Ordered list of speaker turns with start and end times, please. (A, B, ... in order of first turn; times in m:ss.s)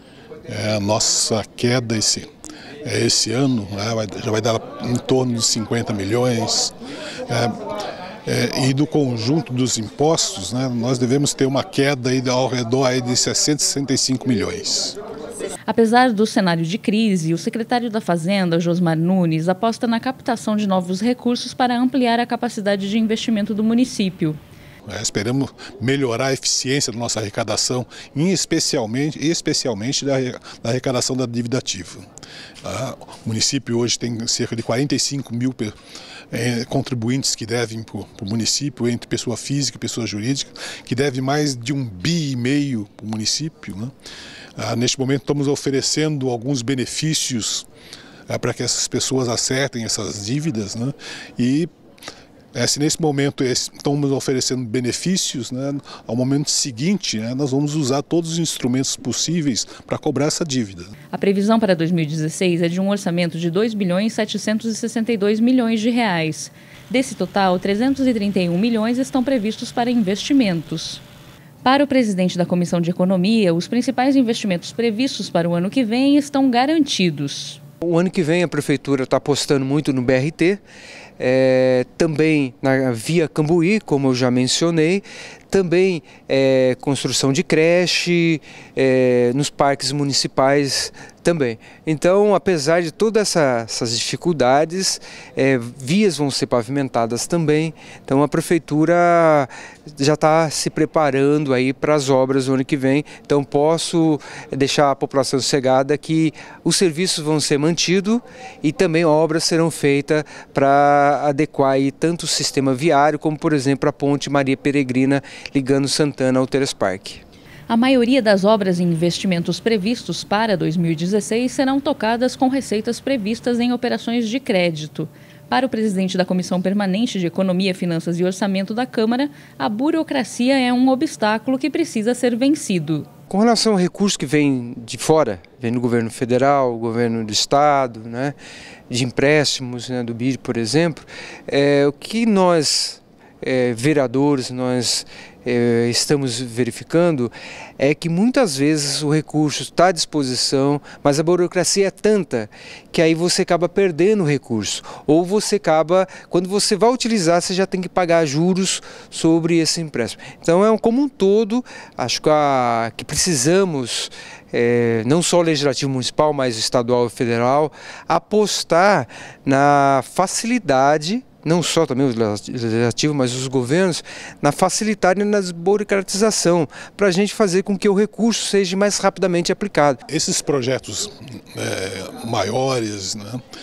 0:00.5-0:02.3 A
0:02.8-0:06.8 A
0:07.3-0:07.6 A
0:08.3-0:15.0 A
0:15.7-0:24.4 B
0:24.9-0:32.0 A
0:32.6-0:35.8 A
0:36.3-0:43.9 A
0:44.6-0:47.7 A
0:48.3-0:51.7 A
0:52.5-1:00.9 A
1:01.1-1:11.0 B
1:11.6-1:17.6 B
1:17.8-1:20.6 C
1:21.2-1:57.2 C
1:57.7-2:13.1 B
2:13.3-2:18.4 C
2:18.9-3:00.0 C
3:00.1-3:03.4 A